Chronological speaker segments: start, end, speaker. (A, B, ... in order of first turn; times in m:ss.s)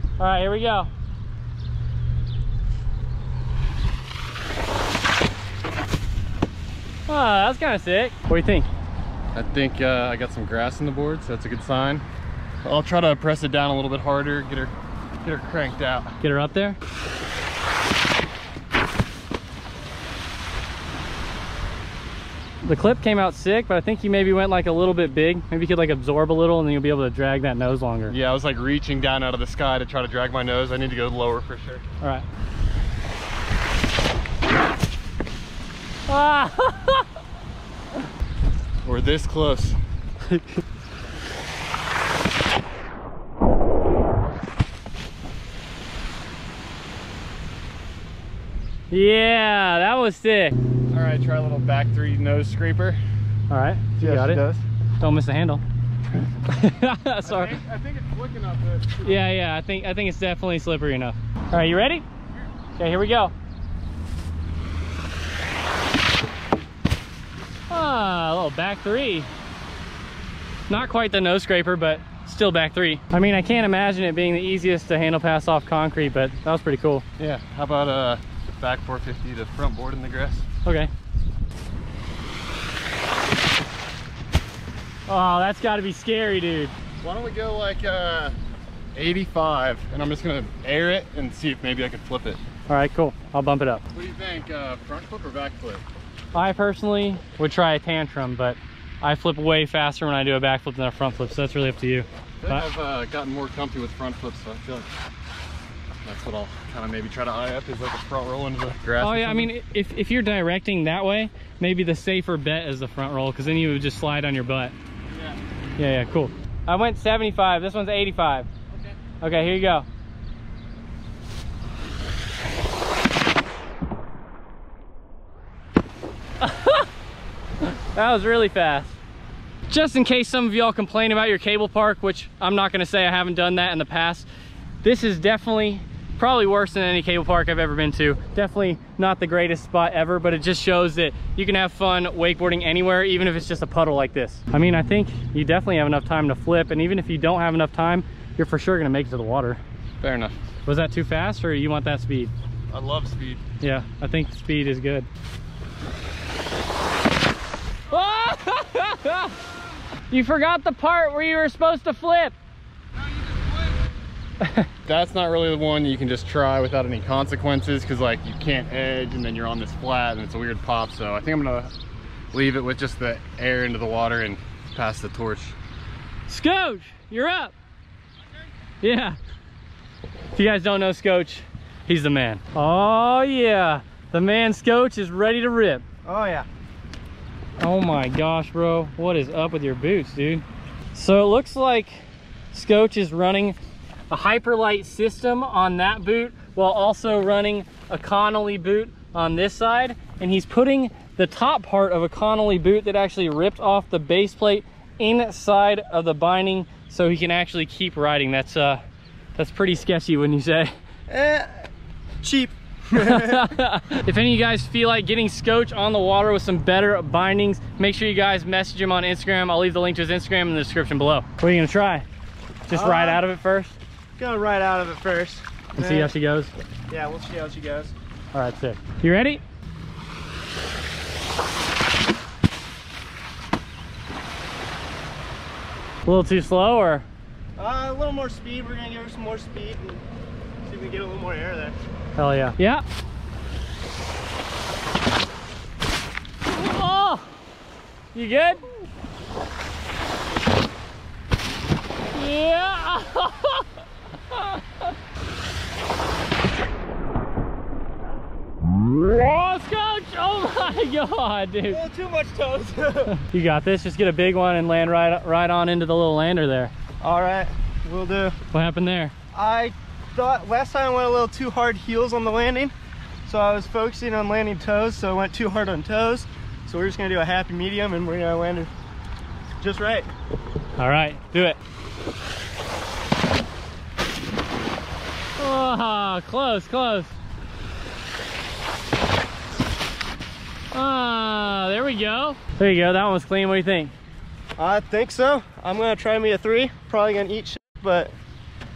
0:00.2-0:00.9 A
0:07.1-0:08.7 A
0:09.3-0:12.0 B
0:12.6-0:16.1 B
0:16.2-0:16.8 A
0:22.6-0:28.2 A
0:28.1-0:31.8 B
0:36.1-0:37.1 A
0:38.8-0:39.8 B
0:40.3-0:40.6 A
0:48.9-0:50.6 A
0:50.9-0:53.0 B
0:53.5-0:54.4 A
0:54.0-0:54.6 B
0:55.0-0:55.6 A
0:56.5-0:57.6 A
0:57.2-0:59.2 B
0:59.0-1:02.0 A
1:02.8-1:03.3 A
1:07.7-1:09.3 A
1:10.7-1:17.0 A
1:17.2-1:20.4 B
1:20.6-1:20.9 A
1:25.1-1:26.8 A
1:27.0-1:28.4 B
1:29.0-1:32.4 B
1:32.7-1:33.8 A
1:33.9-1:35.8 B
1:36.3-1:42.7 A
1:42.4-1:44.9 B
1:46.0-1:49.5 B
1:49.0-1:54.7 A
1:55.8-1:58.5 A
1:59.2-1:59.9 A
2:06.4-2:06.9 A
2:07.6-2:09.0 A
2:09.7-2:14.3 A
2:14.8-2:29.6 A
2:30.0-2:30.4 B
2:30.7-2:32.3 A
2:32.7-2:33.4 B
2:33.6-2:35.1 A
2:37.9-2:39.4 A
2:40.1-2:42.4 A
2:43.1-2:43.5 B
2:44.4-2:44.7 A
2:44.9-2:51.7 B
2:52.3-2:55.6 B
2:56.3-2:57.5 A
2:58.8-2:59.2 A
3:00.4-3:05.8 A
3:06.1-3:06.5 C
3:07.6-3:13.6 A
3:14.1-3:28.8 A
3:29.4-3:30.7 A
3:31.1-3:31.7 C
3:32.2-3:33.2 C
3:33.0-3:42.0 A
3:42.7-3:43.8 A
3:42.7-3:43.2 C
3:44.2-3:46.1 C
3:45.8-3:46.5 A
3:46.9-3:47.9 C
3:48.3-3:49.4 A
3:56.1-3:57.1 A
3:57.6-4:00.0 C
4:00.6-4:01.8 C
4:02.2-4:02.8 A
4:06.5-4:07.3 A
4:08.1-4:08.7 A
4:12.1-4:13.7 A
4:14.3-4:14.8 A
4:19.0-4:21.8 A
4:21.7-4:23.1 C
4:23.1-4:26.7 A
4:27.0-4:28.3 C
4:28.5-4:29.1 A
4:29.3-4:32.7 C
4:33.3-4:38.7 C
4:39.6-4:40.1 C
4:40.8-4:41.6 A
4:45.4-4:47.2 A
4:50.7-4:53.9 A
4:54.6-4:58.1 C